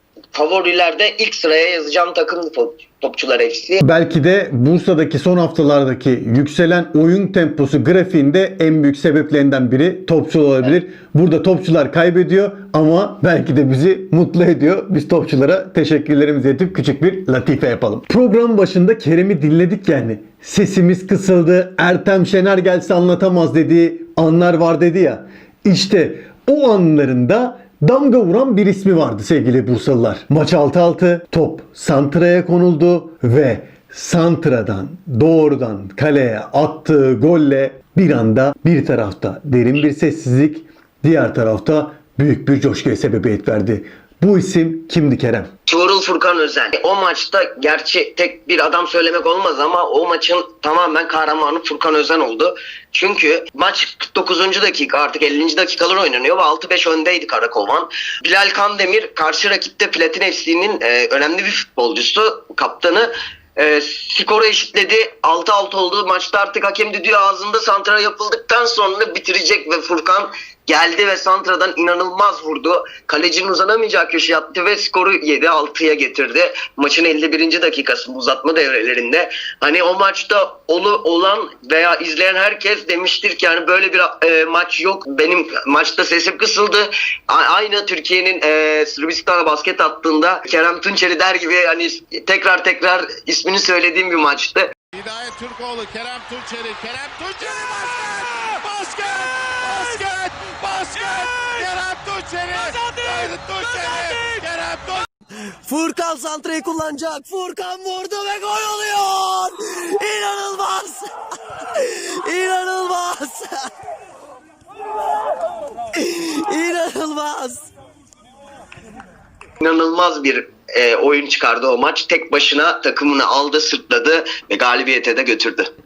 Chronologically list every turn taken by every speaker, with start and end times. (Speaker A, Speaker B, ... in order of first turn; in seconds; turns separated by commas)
Speaker A: 0.3-3.8, Speaker B: 3.8-45.5, Speaker A: 45.7-94.7, Speaker C: 95.0-105.0, Speaker D: 103.7-104.3, Speaker D: 105.7-111.1, Speaker D: 111.7-113.7, Speaker D: 115.9-117.7, Speaker A: 119.6-125.7